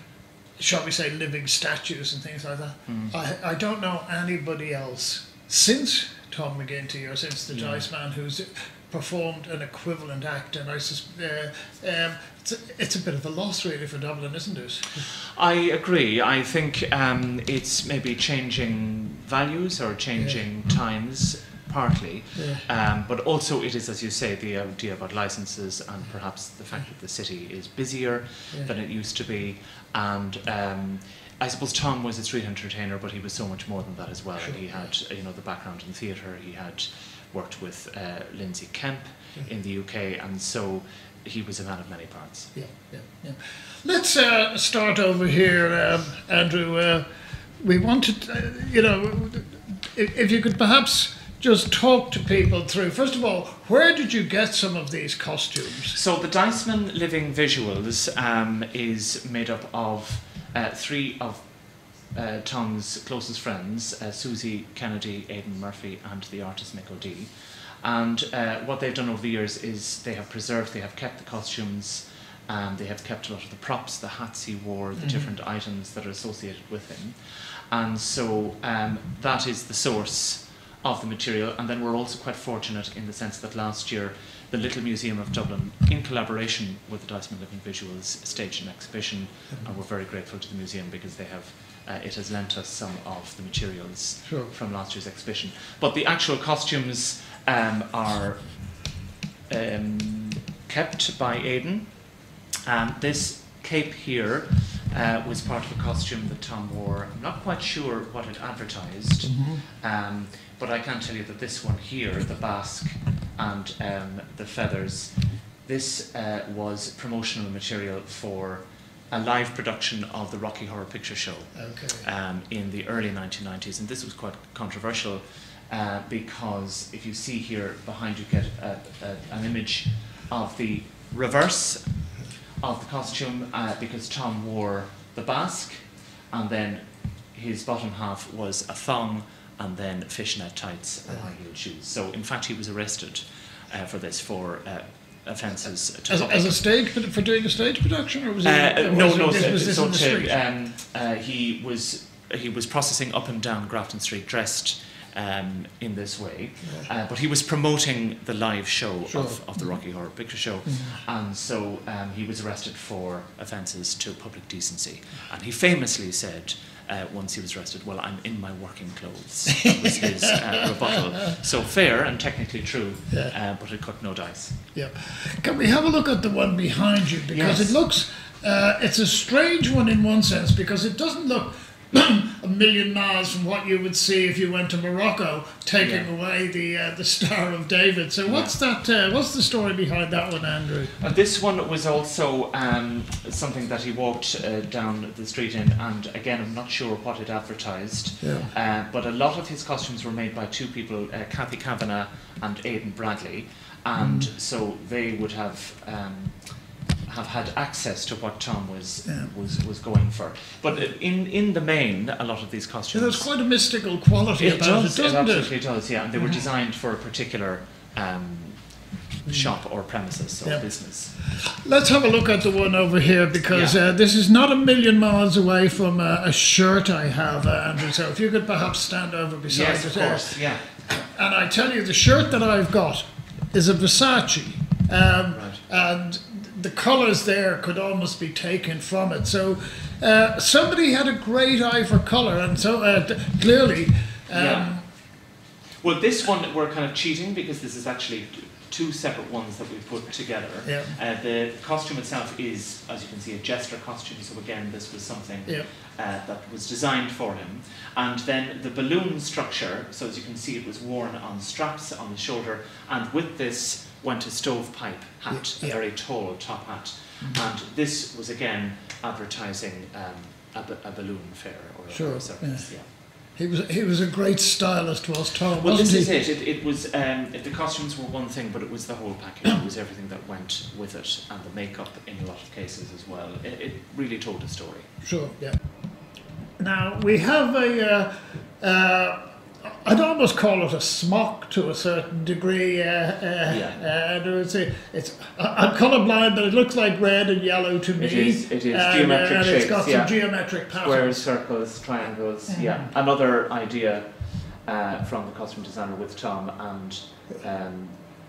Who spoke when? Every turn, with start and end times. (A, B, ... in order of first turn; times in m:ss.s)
0:00.6-0:15.1 A
0:02.9-0:03.2 B
0:07.5-0:07.9 B
0:15.3-0:42.5 B
0:20.2-0:20.4 A
0:22.3-0:22.6 A
0:34.4-0:34.6 A
0:42.5-0:47.0 A
0:47.6-0:56.0 A
0:55.9-1:01.5 B
1:02.1-1:38.9 B
1:15.0-1:15.3 A
1:34.2-1:34.5 A
1:39.5-2:26.6 B
1:49.2-1:49.6 A
2:01.5-2:02.0 A
2:26.1-2:30.3 A
2:28.4-2:54.6 B
2:39.1-2:39.8 A
2:40.6-2:41.0 A
2:49.6-2:50.4 A
2:54.7-3:10.9 A
2:57.3-2:57.7 B
3:05.8-3:06.1 B
3:08.2-3:08.6 B
3:11.0-3:33.3 B
3:18.2-3:18.5 A
3:24.0-3:24.3 A
3:29.0-3:29.3 A
3:32.9-3:35.5 A
3:34.4-3:41.1 B
3:36.1-3:36.4 A
3:41.3-4:04.8 A
3:43.4-3:43.8 B
3:49.5-3:50.6 B
3:55.3-3:55.6 B
4:04.3-4:04.8 B
4:05.8-4:32.9 B
4:10.6-4:11.0 A
4:25.3-4:25.8 A
4:31.9-4:32.7 A
4:33.3-4:36.1 A
4:35.6-4:44.9 B
4:45.0-4:45.6 A
4:46.6-5:01.2 A
4:53.4-4:53.8 B
4:58.0-5:08.0 B
5:02.5-5:02.9 A